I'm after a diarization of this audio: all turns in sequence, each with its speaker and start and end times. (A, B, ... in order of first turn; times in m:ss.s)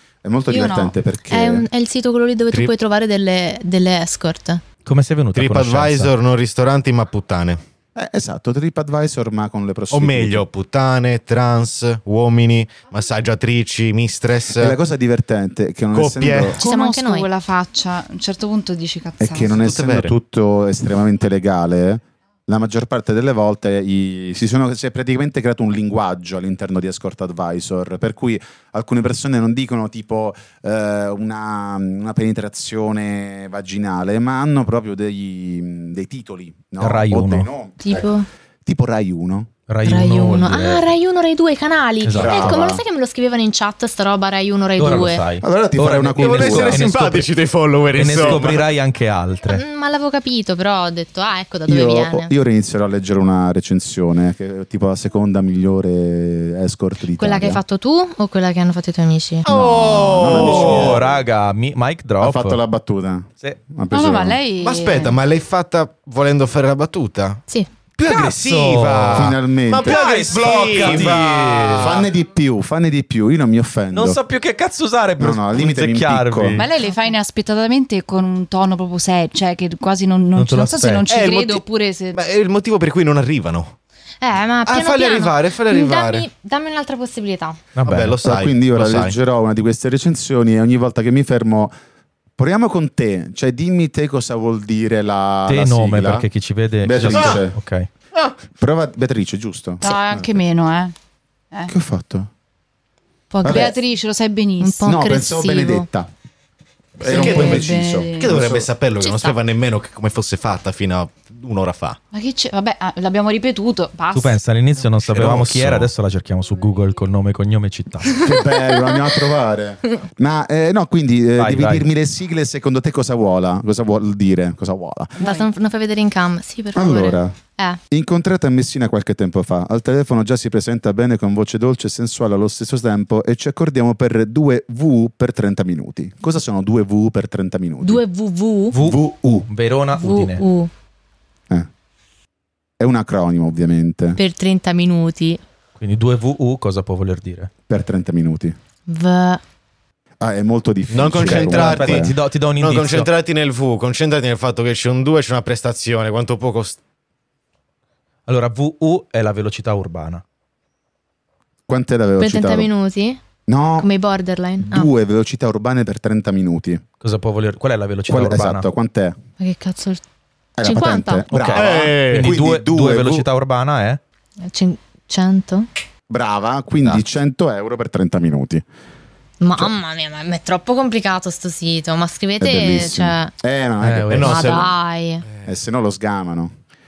0:00.2-0:01.7 A
0:00.5-0:01.0 B
0:01.3-0:04.7 C
0:04.8-0:06.1 D
0:05.3-0:07.6 E
0:08.0-0:10.4 A
0:09.9-0:14.8 E
0:14.6-0:16.6 A
0:15.9-0:16.6 E
0:16.6-0:19.6 B
0:16.6-0:17.3 C
0:19.2-0:38.1 A
0:19.5-0:20.1 E
0:36.8-0:37.5 D
0:37.8-0:38.2 C
0:38.6-0:39.5 A
0:39.7-0:40.9 D
0:39.8-0:45.2 C
0:42.0-0:42.6 D
0:42.2-0:42.8 A
0:44.8-0:47.3 D
0:45.4-0:46.9 A
0:46.1-0:48.6 E
0:47.9-0:49.6 D
0:49.5-0:52.3 C
0:51.7-0:57.6 A
0:57.1-0:59.5 C
0:59.4-1:01.1 E
0:59.5-1:01.0 A
1:00.3-1:02.6 D
1:02.2-1:04.4 A
1:03.9-1:05.2 B
1:04.6-1:07.4 E
1:08.0-1:12.1 E
1:08.0-1:12.0 D
1:09.1-1:10.0 A
1:10.7-1:11.2 A
1:11.7-1:14.2 A
1:13.9-1:16.7 D
1:15.2-1:16.6 A
1:16.5-1:22.2 B
1:20.3-1:21.1 D
1:21.1-1:23.7 E
1:24.2-1:27.7 C
1:24.6-1:26.3 E
1:27.7-1:28.2 D
1:27.8-1:29.2 E
1:28.2-1:31.7 A
1:32.4-1:36.3 A
1:35.5-1:37.9 D
1:36.8-1:37.6 A
1:38.6-1:40.4 A
1:39.8-1:40.9 B
1:41.7-1:42.3 A
1:43.3-1:45.0 B
1:43.4-1:43.8 A
1:44.6-1:45.9 C
1:44.8-1:46.1 A
1:47.0-1:48.7 A
1:47.0-1:52.0 E
1:47.0-1:48.4 B
1:49.0-1:49.4 C
1:52.1-1:54.4 B
1:54.1-1:58.2 D
1:55.0-1:55.9 E
1:58.2-2:05.2 A
2:01.4-2:01.9 D
2:05.2-2:05.5 B
2:05.2-2:07.8 C
2:06.7-2:07.3 A
2:07.9-2:18.0 A
2:17.8-2:18.8 C
2:18.7-2:20.4 D
2:18.7-2:19.5 A
2:20.0-2:20.7 C
2:22.8-2:24.2 A
2:24.2-2:25.4 C
2:25.8-2:27.5 D
2:27.7-2:28.6 A
2:28.9-2:29.4 C
2:30.2-2:32.2 A
2:30.9-2:36.8 E
2:31.2-2:33.1 D
2:38.3-2:40.2 D
2:41.7-2:42.7 A
2:42.2-2:43.2 C
2:43.5-2:43.9 A
2:43.8-2:44.9 C
2:44.6-2:46.8 A
2:47.0-2:48.7 D
2:48.1-2:49.2 A
2:49.4-2:50.0 C
2:50.6-2:53.3 A
2:50.6-2:51.2 C
2:51.3-2:54.0 D
2:51.5-2:52.3 E
2:54.5-2:55.7 C
2:56.1-2:58.6 A
2:59.4-3:03.3 C
3:02.4-3:04.6 A
3:03.8-3:04.4 D
3:04.1-3:04.7 E
3:04.2-3:05.3 C
3:05.4-3:06.5 A